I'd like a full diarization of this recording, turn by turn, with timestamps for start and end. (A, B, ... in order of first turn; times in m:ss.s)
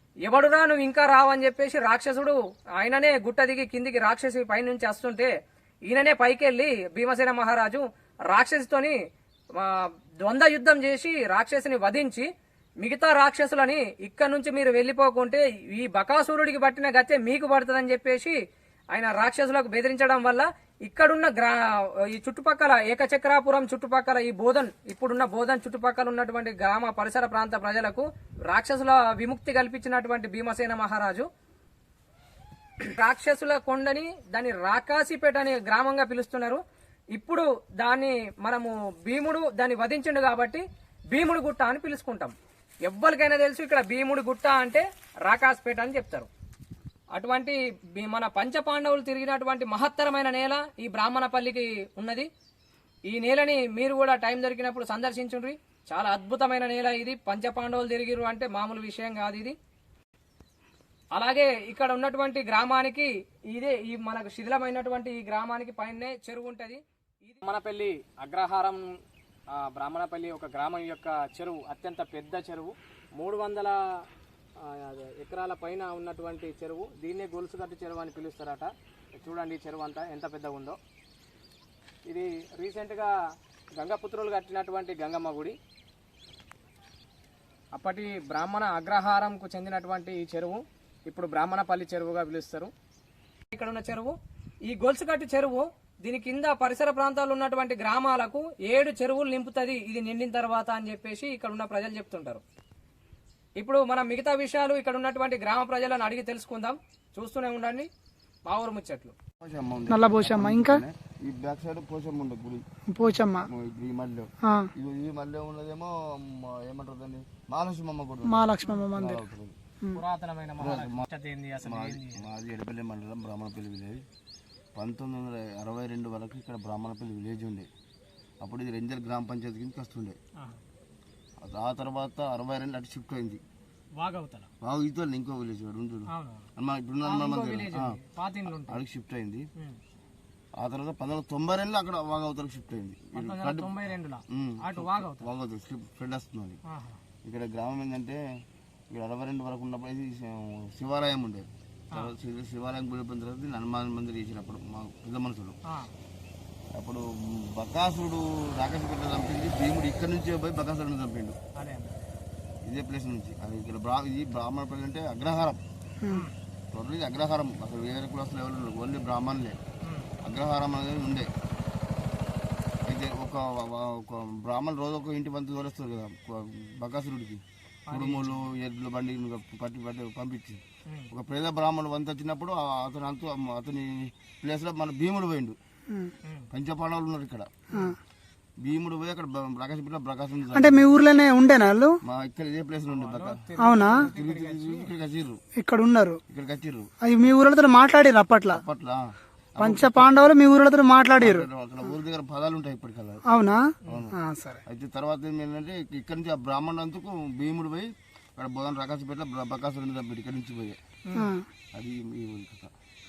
0:00.2-0:05.3 A
0:05.9-0:09.0 A
0:09.6-0:12.3 A
0:12.8-0:18.4 A
0:18.9-0:31.2 A
0:32.8-0:36.6 A
0:37.1-0:42.3 A
0:42.8-0:46.3 A
0:47.1-0:52.3 A
0:53.1-0:59.6 A
1:01.1-1:08.9 A
1:09.5-1:13.8 A
1:14.6-1:20.8 A
1:22.1-1:23.1 A
1:23.8-1:25.6 A
1:27.7-1:32.7 A
1:33.5-1:34.1 A
1:34.6-1:42.4 A
1:43.6-1:47.9 A
1:48.4-1:49.1 A
1:49.4-1:52.6 B
1:49.9-1:50.8 C
1:52.9-1:53.5 C
1:53.4-1:59.5 B
1:58.2-1:59.2 C
1:59.9-2:02.2 A
2:00.6-2:01.1 B
2:01.6-2:04.0 B
2:04.8-2:07.7 B
2:08.4-2:10.2 B
2:11.4-2:13.4 B
2:14.0-2:14.5 A
2:14.6-2:18.0 B
2:16.1-2:16.5 A
2:17.0-2:18.8 A
2:18.5-2:19.4 B
2:20.6-2:23.7 B
2:23.1-2:25.3 A
2:24.3-2:26.6 B
2:26.7-2:27.0 A
2:27.2-2:28.2 B
2:28.9-2:35.6 B
2:36.7-2:41.4 B
2:41.6-2:42.0 A
2:42.6-2:45.6 B
2:46.7-2:49.6 B
2:49.8-2:50.1 A
2:50.2-2:51.3 B
2:52.8-3:05.6 B
2:57.9-2:58.5 A
3:00.8-3:01.1 A
3:06.5-3:07.6 B
3:08.6-3:10.8 B
3:10.5-3:12.0 C
3:12.0-3:13.4 B
3:12.9-3:14.9 A
3:13.6-3:14.1 C
3:14.0-3:15.4 B
3:15.6-3:16.2 C
3:16.3-3:16.9 B
3:17.0-3:18.6 C
3:18.5-3:19.0 B
3:19.5-3:20.3 B
3:19.6-3:21.5 C
3:21.2-3:23.2 B
3:23.3-3:23.6 C
3:23.9-3:30.8 B
3:24.1-3:24.6 C
3:31.0-3:31.3 A
3:31.2-3:31.4 C
3:31.7-3:32.7 B